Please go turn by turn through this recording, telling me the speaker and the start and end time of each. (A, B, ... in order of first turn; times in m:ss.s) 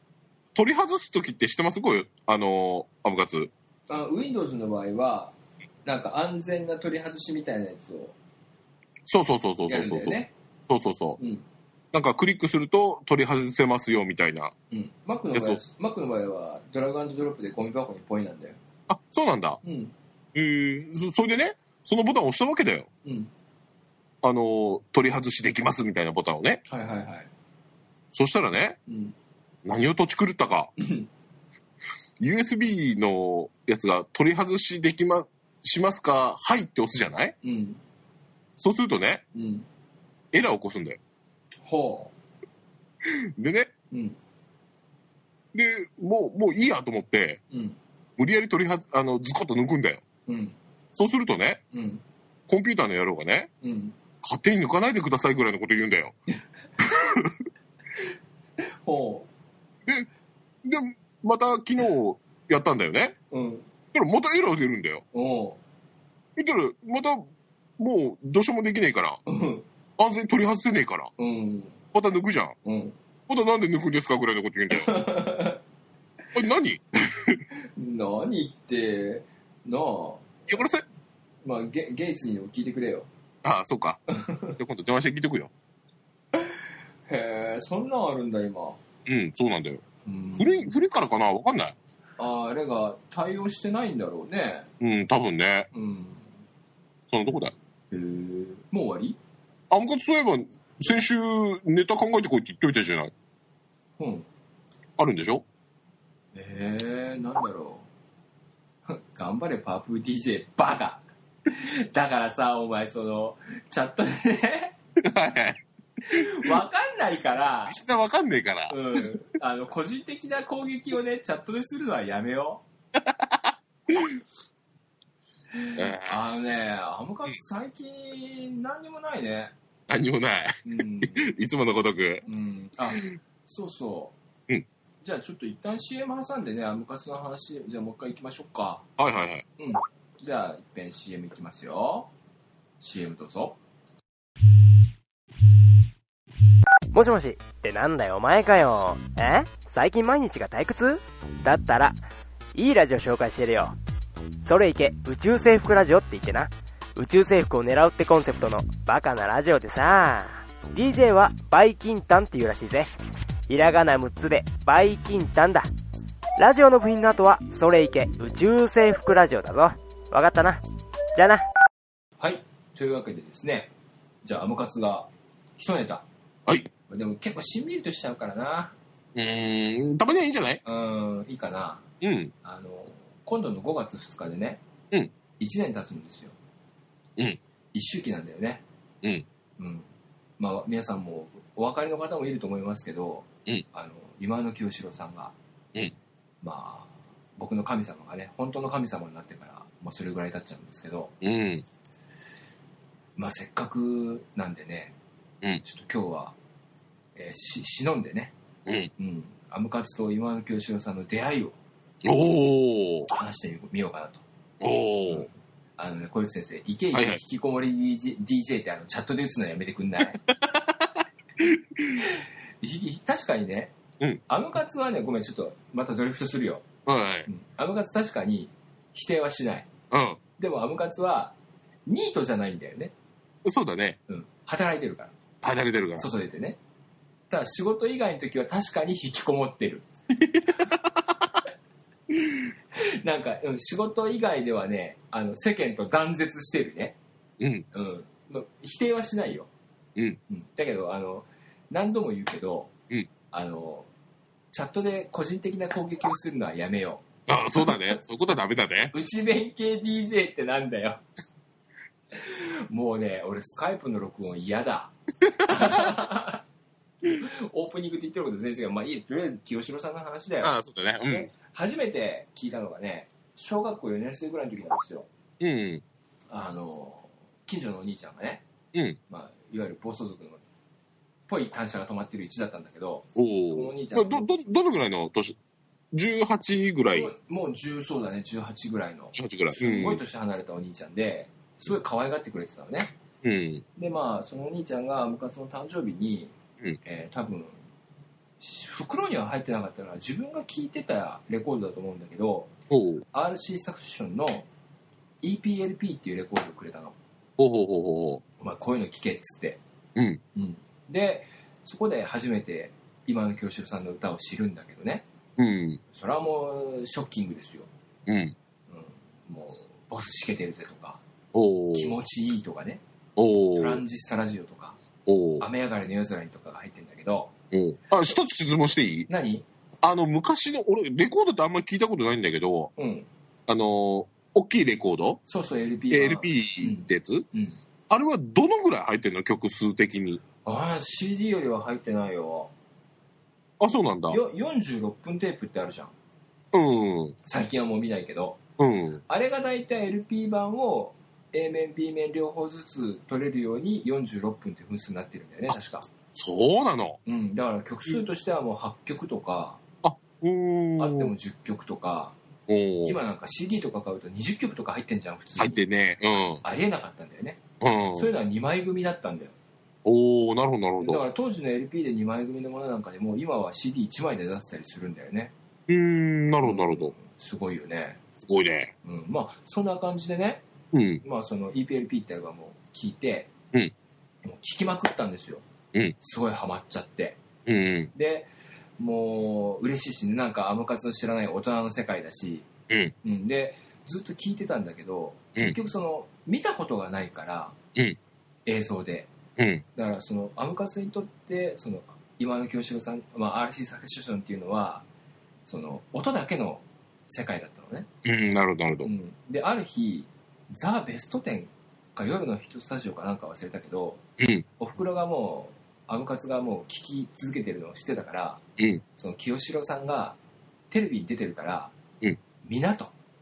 0:00.6-0:03.5 A
0:03.9-0:05.3 B
0:05.8-0:08.2 B
0:09.1-0:10.2 A
0:09.7-0:10.3 B
0:10.7-0:11.2 A
0:11.2-0:11.4 B
0:11.9-0:14.5 A
0:14.7-0:18.6 B
0:15.3-0:15.6 A
0:18.9-0:19.6 A
0:19.6-0:19.9 B
0:20.3-0:22.9 A
0:23.0-0:23.3 B
0:24.2-0:26.6 A
0:26.7-0:27.3 B
0:28.1-0:28.8 A
0:28.9-0:29.1 B
0:29.6-0:30.7 A
0:30.8-0:31.1 B
0:32.2-0:37.4 A
0:37.4-0:37.8 B
0:38.6-0:39.2 A
0:39.3-0:39.7 B
0:40.3-0:41.0 A
0:41.6-0:42.1 B
0:43.0-0:43.7 A
0:43.9-0:44.2 B
0:45.5-0:47.4 A
0:47.5-0:47.8 B
0:48.2-0:50.0 A
0:50.3-0:50.6 B
0:51.0-0:51.6 A
0:51.7-0:52.0 B
0:52.5-0:53.5 A
0:53.6-0:53.9 B
0:54.2-0:56.2 A
0:56.8-0:57.4 A
0:58.8-0:59.3 B
1:00.6-1:03.2 A
1:03.3-1:03.7 B
1:03.9-1:05.0 A
1:05.1-1:05.6 B
1:06.4-1:09.2 A
1:09.3-1:09.6 B
1:10.0-1:11.1 A
1:11.2-1:11.8 B
1:11.9-1:12.6 A
1:12.6-1:13.0 B
1:13.3-1:15.0 A
1:14.7-1:15.6 B
1:16.4-1:17.4 A
1:17.6-1:20.6 B
1:20.5-1:20.8 A
1:21.4-1:23.1 B
1:23.4-1:24.0 A
1:24.1-1:24.6 B
1:24.6-1:25.5 A
1:26.4-1:28.8 B
1:29.1-1:29.8 A
1:30.0-1:30.7 B
1:30.4-1:31.8 A
1:32.2-1:34.7 B
1:34.8-1:35.7 A
1:35.7-1:36.2 B
1:37.1-1:37.5 A
1:37.9-1:39.2 B
1:39.7-1:43.1 A
1:44.0-1:44.3 B
1:45.0-1:45.4 A
1:46.3-1:47.9 B
1:48.9-1:54.7 B
1:55.0-1:56.5 A
1:56.0-1:57.8 B
1:57.7-1:59.1 A
1:58.7-2:02.6 B
2:03.0-2:04.2 A
2:05.6-2:09.5 B
2:05.8-2:06.2 A
2:09.9-2:12.2 A
2:10.6-2:11.3 B
2:12.2-2:14.2 B
2:15.0-2:18.8 B
2:19.0-2:19.4 A
2:19.6-2:22.1 B
2:22.8-2:23.6 B
2:26.9-2:32.0 C
2:32.6-2:33.8 C
2:34.4-2:42.9 C
2:43.5-2:45.7 C
2:46.4-2:50.6 C
2:51.2-2:51.4 C
2:52.2-2:53.7 B
2:54.2-2:56.0 B
2:56.9-2:58.7 B
2:59.2-3:00.6 A
3:00.6-3:01.9 B
3:02.0-3:02.3 A
3:02.4-3:04.6 B
3:05.4-3:06.4 B
3:07.7-3:08.6 B
3:09.6-3:09.9 B
3:10.4-3:15.3 B
3:16.4-3:21.1 B
3:21.2-3:21.6 A
3:23.2-3:25.0 B
3:25.6-3:26.4 B
3:27.2-3:28.3 B
3:28.7-3:28.9 A
3:29.0-3:31.6 B
3:32.0-3:33.1 A
3:33.1-3:34.2 B
3:34.6-3:35.3 A
3:35.1-3:40.2 B
3:36.9-3:37.2 A
3:40.3-3:42.0 A
3:42.0-3:43.7 B
3:44.3-3:46.7 B
3:46.9-3:47.3 A
3:47.3-3:49.7 B
3:49.9-3:50.2 A
3:50.4-3:51.4 B
3:51.9-3:52.9 B
3:53.4-3:54.0 A
3:54.1-3:55.1 B
3:55.4-3:56.1 A
3:56.0-3:56.6 B
3:57.3-3:59.9 B
4:00.5-4:01.0 A
4:02.2-4:07.0 B
4:07.4-4:07.7 A
4:07.7-4:09.5 B
4:10.3-4:12.7 B
4:13.3-4:13.9 B
4:14.5-4:17.9 B
4:17.3-4:18.9 A
4:18.9-4:21.0 B
4:22.1-4:24.9 B
4:25.3-4:25.9 A
4:25.4-4:26.4 B
4:27.0-4:30.5 B
4:30.4-4:31.3 A
4:31.1-4:35.1 B
4:35.4-4:35.8 A
4:36.3-4:38.4 B
4:39.1-4:40.4 B
4:41.3-4:44.3 B
4:43.2-4:45.4 A
4:45.9-4:47.1 A
4:46.9-4:52.9 B
4:49.1-4:50.0 A
4:53.2-4:53.6 A
4:53.8-4:57.6 B
4:58.4-5:02.5 B
5:02.7-5:03.0 A
5:03.1-5:04.5 B
5:05.2-5:07.0 B
5:07.4-5:08.2 A
5:08.4-5:09.6 B
5:10.0-5:10.2 A
5:10.4-5:15.0 B
5:15.4-5:15.8 A
5:15.9-5:17.7 B
5:18.1-5:18.4 A
5:18.7-5:21.0 B
5:21.3-5:22.0 A
5:21.7-5:22.8 B
5:23.2-5:23.8 A
5:23.6-5:24.8 B
5:25.1-5:25.5 A
5:25.4-5:27.3 B
5:27.5-5:29.1 A
5:29.1-5:29.5 B
5:29.8-5:32.7 A
5:32.8-5:33.1 B
5:33.5-5:35.2 A
5:35.3-5:37.6 B
5:35.9-5:37.3 A
5:37.9-5:40.2 A
5:40.4-5:42.5 B
5:43.6-5:44.2 A
5:44.1-5:45.9 B
5:46.5-5:47.2 A
5:47.2-5:48.4 B
5:48.6-5:49.0 A
5:49.1-5:55.9 B
5:56.2-5:57.0 A
5:57.1-5:59.6 B
5:59.8-6:01.1 A
6:00.8-6:02.2 B
6:02.5-6:03.0 A
6:02.8-6:05.6 B
6:05.4-6:06.4 A
6:06.4-6:07.4 B
6:07.6-6:08.1 A
6:07.9-6:09.4 B
6:09.8-6:11.0 A
6:10.8-6:15.3 B
6:15.7-6:16.9 A
6:16.4-6:18.0 B
6:18.2-6:18.7 A
6:18.8-6:20.4 B
6:20.7-6:21.0 A
6:21.0-6:23.3 B
6:24.2-6:25.4 B
6:26.0-6:27.2 B
6:27.5-6:27.9 A
6:27.9-6:32.5 B
6:32.7-6:33.0 A
6:33.0-6:37.6 B
6:38.5-6:39.1 B
6:39.4-6:39.6 A
6:39.8-6:44.9 B
6:45.5-6:47.9 B
6:48.0-6:48.9 A
6:48.8-6:54.0 B
6:54.2-6:54.5 A
6:54.6-6:58.4 B
6:58.6-6:58.8 A
6:59.0-7:00.2 B
7:00.7-7:01.7 B
7:02.4-7:02.9 B